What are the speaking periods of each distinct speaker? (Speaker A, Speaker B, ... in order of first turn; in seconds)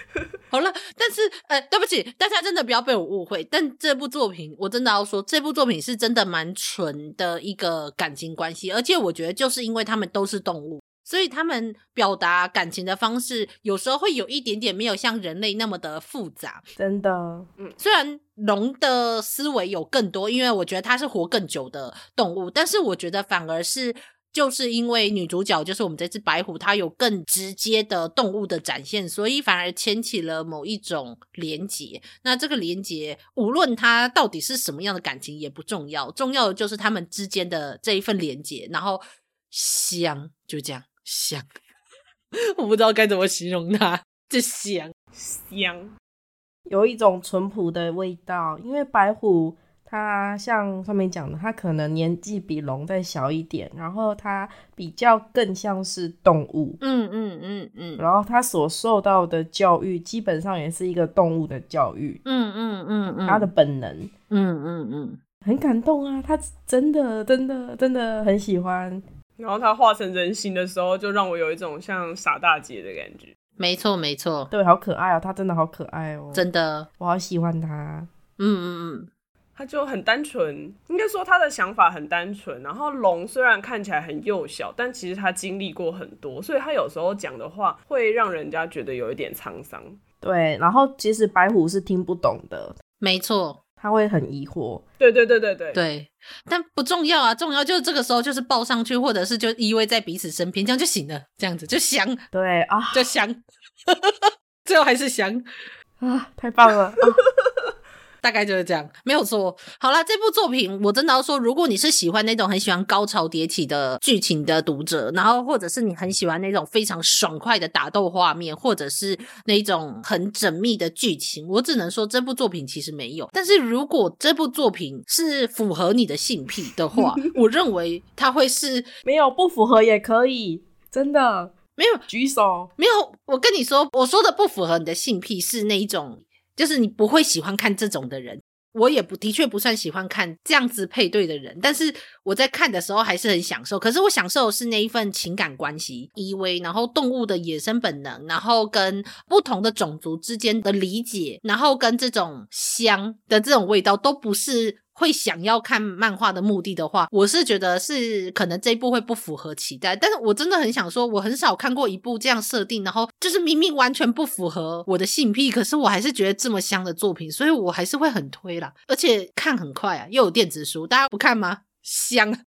Speaker A: 0.5-16.6, 17.8-41.5, 42.5-44.9, 56.8-58.0, 62.2-63.5, 64.3-65.2, 73.6-74.5, 76.3-76.9, 78.4-79.1, 93.0-93.6, 95.7-102.2, 102.9-105.5, 108.2-128.9, 131.8-132.0, 132.8-172.4
Speaker B: 16.8-17.5, 46.7-56.8, 58.0-62.2, 63.3-64.1, 65.5-69.0, 74.5-76.5, 77.0-78.1, 90.2-92.8, 93.8-94.8, 102.3-103.1, 106.0-107.2, 129.1-131.5, 132.1-132.7
Speaker C: 45.1-45.9, 69.4-73.3, 79.6-90.0, 95.0-95.8